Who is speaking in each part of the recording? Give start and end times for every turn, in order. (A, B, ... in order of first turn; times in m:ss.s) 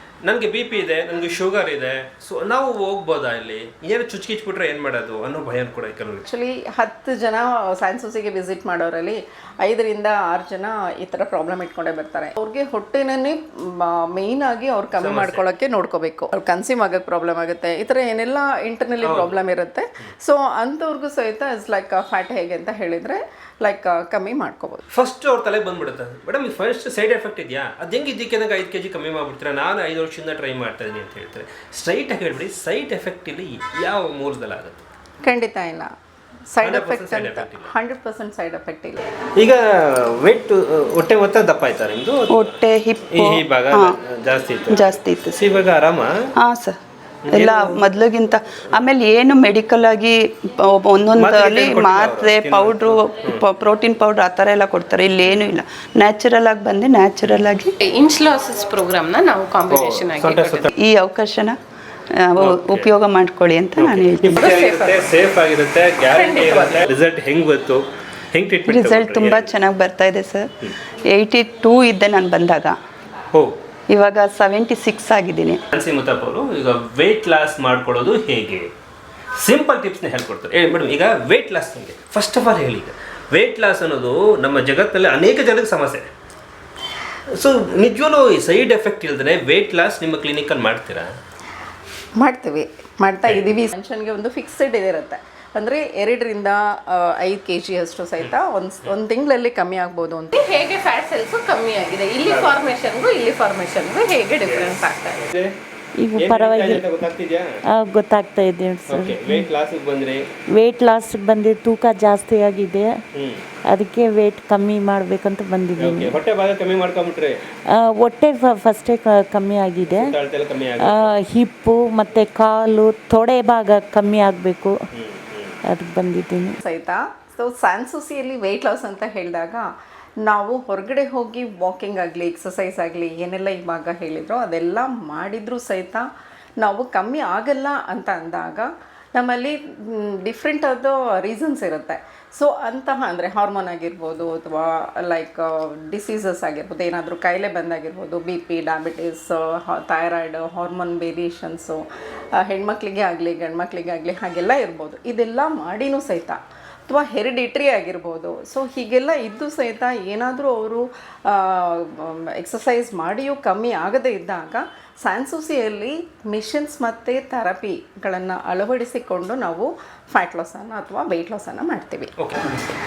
0:00.2-0:06.2 A
0:06.3-0:24.8 B
0:15.0-0:15.4 A
0:19.0-0:19.4 A
0:24.9-0:34.8 A
0:35.2-0:35.9 B
0:36.5-0:39.0 B
0:36.6-0:37.7 A
0:39.4-0:42.4 A
0:42.3-0:43.9 C
0:43.1-0:46.1 A
0:44.7-0:45.4 C
0:46.4-0:46.8 C
0:47.2-0:47.8 A
0:47.3-0:57.7 C
0:51.2-0:53.4 A
0:57.8-1:00.7 D
0:59.7-1:00.7 A
1:00.8-1:01.6 C
1:02.2-1:04.5 C
1:02.4-1:02.9 A
1:03.8-1:09.5 A
1:04.4-1:05.1 D
1:06.1-1:06.9 D
1:08.7-1:10.5 C
1:11.1-1:12.8 C
1:13.9-1:15.6 C
1:15.7-1:18.7 A
1:19.4-1:26.1 A
1:27.3-1:31.1 A
1:32.2-1:40.4 B
1:33.3-1:33.5 A
1:40.3-1:45.2 D
1:42.2-1:42.6 A
1:44.4-1:45.5 A
1:46.0-1:47.1 E
1:46.2-1:47.5 A
1:47.7-1:49.5 E
1:48.9-1:50.2 A
1:50.6-1:53.0 E
1:53.1-1:53.4 A
1:53.7-1:56.2 E
1:55.8-1:57.4 A
1:57.7-2:00.1 E
1:59.8-2:01.1 A
2:00.8-2:04.8 E
2:04.9-2:05.6 A
2:05.6-2:06.6 E
2:06.6-2:09.7 B
2:10.2-2:16.0 B
2:16.6-2:31.8 B
2:32.4-2:52.1 B
2:52.2-2:52.6 A